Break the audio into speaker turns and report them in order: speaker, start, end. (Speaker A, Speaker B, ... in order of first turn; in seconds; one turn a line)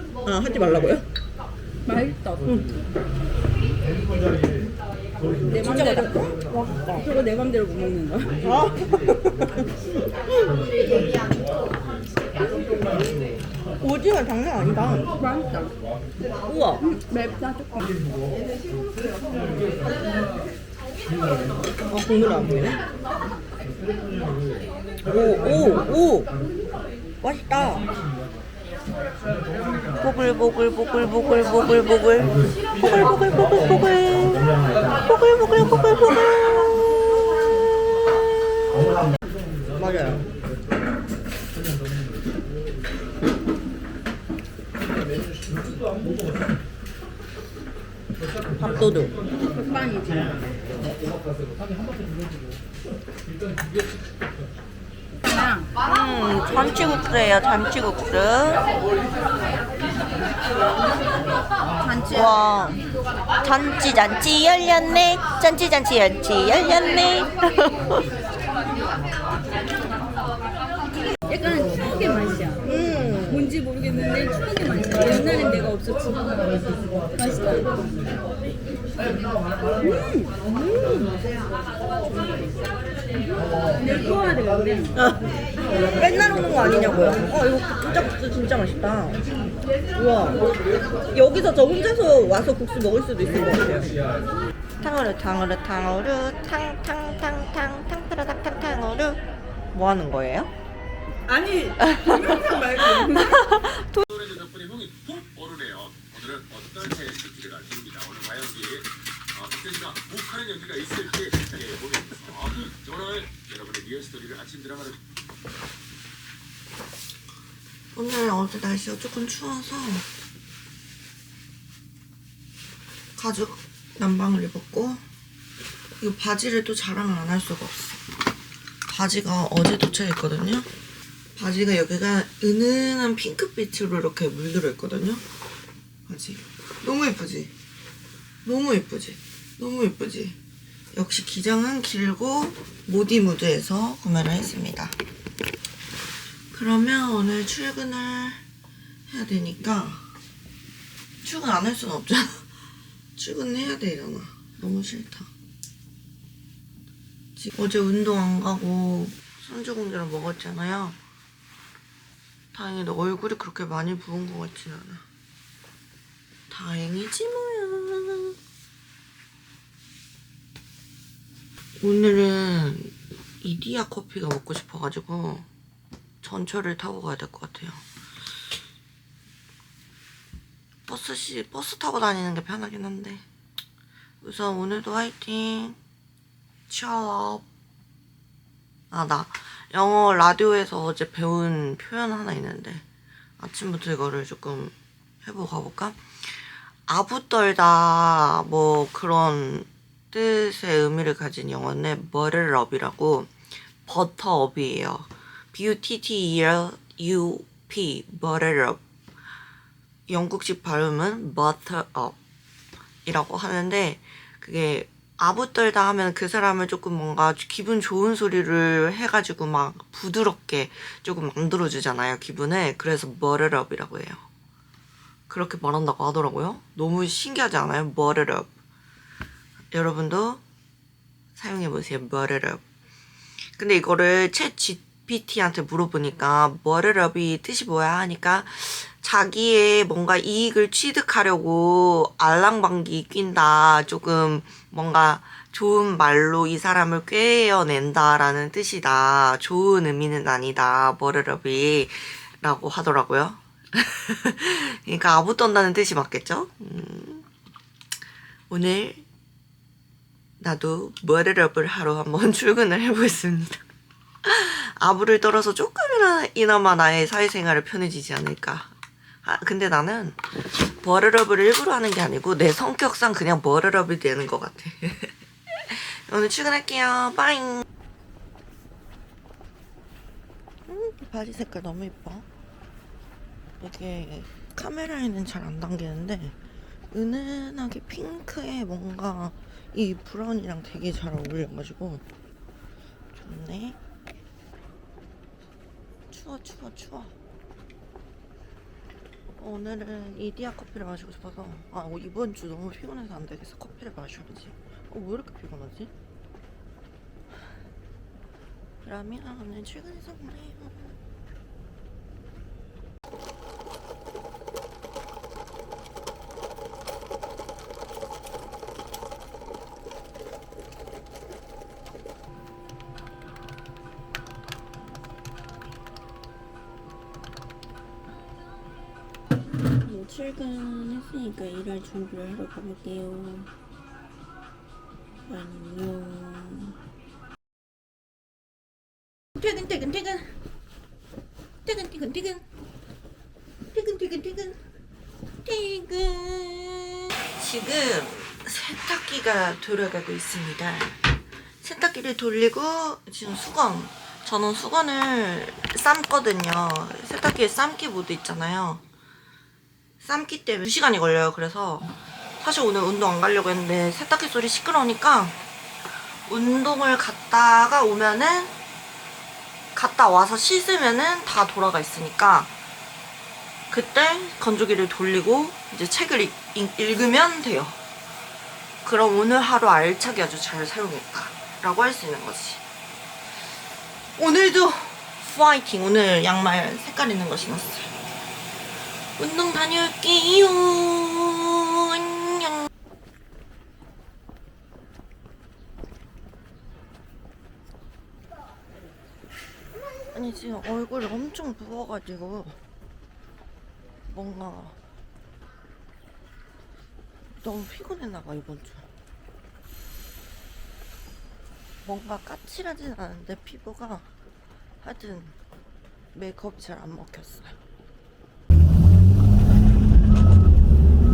Speaker A: 0.2-1.1
Speaker B: 1.8-2.6
Speaker B: 5.5-6.2
Speaker A: 5.5-7.1
Speaker B: 7.0-8.4
Speaker A: 8.4-9.6
Speaker A: 13.8-15.1
Speaker B: 15.2-15.7
Speaker A: 16.4-16.8
Speaker B: 16.8-17.9
Speaker A: 21.9-22.8
Speaker A: 25.0-26.3
Speaker A: 27.2-27.8
Speaker A: 30.0-34.5
Speaker A: 35.0-36.6
Speaker A: 39.8-40.2
Speaker A: 48.6-49.1
Speaker B: 49.2-50.4
Speaker B: 55.2-55.7
Speaker A: 55.9-58.6
Speaker B: 61.8-62.3
Speaker A: 62.1-62.8
Speaker A: 63.4-68.0
Speaker B: 71.2-72.7
Speaker A: 72.6-73.5
Speaker B: 73.2-77.8
Speaker B: 79.8-81.1
Speaker B: 83.7-85.0
Speaker A: 85.0-85.2
Speaker A: 85.9-89.2
Speaker A: 89.9-90.5
Speaker A: 91.1-93.9
Speaker A: 94.8-99.2
Speaker A: 99.7-100.5
Speaker B: 101.3-103.4
Speaker A: 101.8-104.0
Speaker C: 104.1-115.0
Speaker A: 117.9-120.1
Speaker A: 123.2-125.0
Speaker A: 126.0-128.0
Speaker A: 128.9-130.7
Speaker A: 131.3-135.2
Speaker A: 136.1-137.5
Speaker A: 138.4-140.4
Speaker A: 140.9-144.9
Speaker A: 146.5-148.4
Speaker A: 149.1-150.1
Speaker A: 151.2-152.5
Speaker A: 153.2-155.3
Speaker A: 157.3-161.0
Speaker A: 162.5-165.0
Speaker A: 166.5-168.3
Speaker A: 171.8-175.5
Speaker A: 176.2-177.8
Speaker A: 180.9-183.2
Speaker A: 184.2-185.8
Speaker A: 186.7-187.4
Speaker A: 188.9-192.8
Speaker A: 193.4-203.3
Speaker A: 203.8-208.8
Speaker A: 210.1-212.2
Speaker A: 213.0-224.2
Speaker A: 225.3-228.5
Speaker A: 229.7-230.4
Speaker A: 231.3-232.6
Speaker A: 233.6-257.2
Speaker A: 258.5-259.0
Speaker A: 260.4-263.6
Speaker A: 264.2-277.6
Speaker A: 280.7-282.2
Speaker A: 283.6-286.4
Speaker A: 286.9-292.0
Speaker A: 293.1-293.8
Speaker A: 296.1-297.1
Speaker A: 299.4-305.9
Speaker A: 308.8-311.0
Speaker A: 329.8-333.5
Speaker A: 335.2-336.8
Speaker A: 339.4-340.3
Speaker A: 341.6-342.4
Speaker A: 343.7-344.6
Speaker A: 345.4-351.0
Speaker A: 351.6-358.8
Speaker A: 360.0-365.4
Speaker A: 366.2-368.5
Speaker A: 369.7-372.5
Speaker A: 373.7-377.8
Speaker A: 378.8-382.6
Speaker A: 384.1-387.9
Speaker A: 389.2-392.7
Speaker A: 400.1-402.6
Speaker A: 404.1-404.8
Speaker A: 407.4-408.9
Speaker A: 411.8-414.1
Speaker A: 414.8-415.4
Speaker A: 416.1-417.6